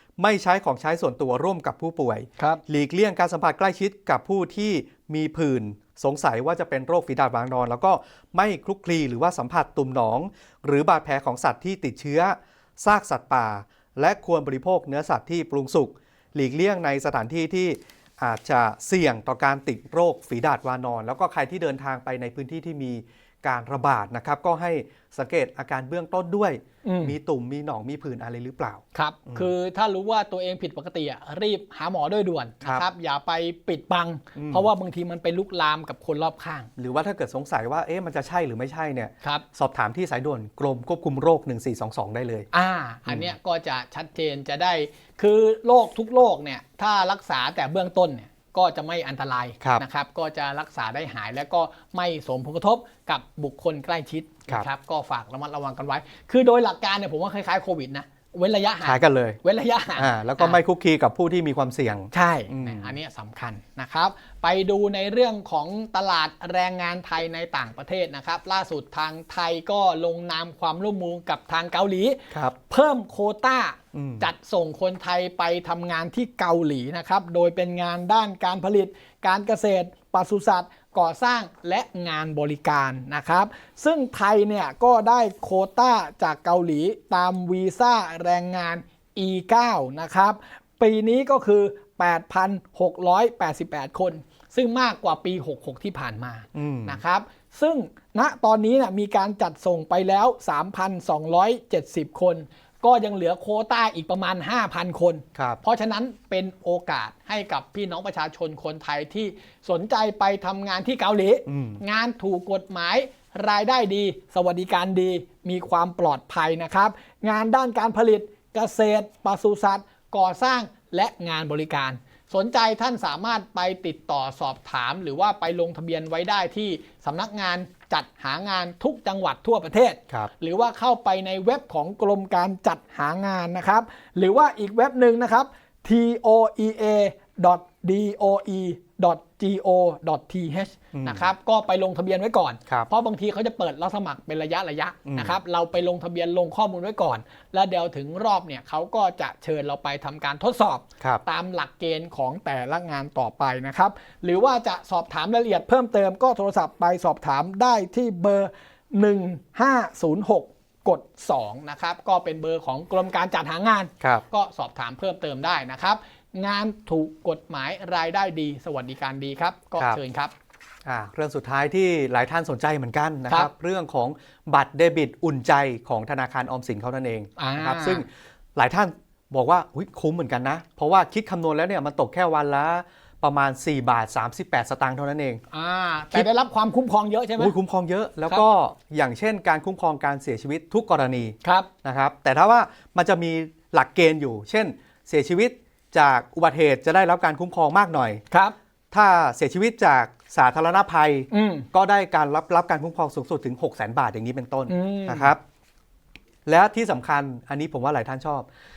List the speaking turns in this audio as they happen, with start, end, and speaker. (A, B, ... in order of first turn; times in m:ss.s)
0:00.2-0:29.5 A
0:26.8-0:27.1 B
0:28.9-0:36.7 B
0:34.4-0:34.7 A
0:36.8-0:42.4 A
0:42.5-1:00.6 B
0:43.1-0:43.3 A
0:58.8-0:59.4 A
1:00.0-1:02.9 A
1:02.1-2:50.3 B
1:13.9-1:14.3 A
1:36.5-1:37.0 A
1:45.3-1:45.6 A
1:51.5-1:51.8 A
2:20.9-2:21.3 A
2:25.0-2:25.4 A
2:50.8-3:05.4 A
2:57.4-2:58.0 B
3:05.5-3:07.5 B
3:07.4-3:18.2 A
3:11.4-3:11.7 B
3:18.9-3:25.4 A
3:21.3-3:21.7 B
3:24.7-3:25.3 B
3:26.4-3:28.5 A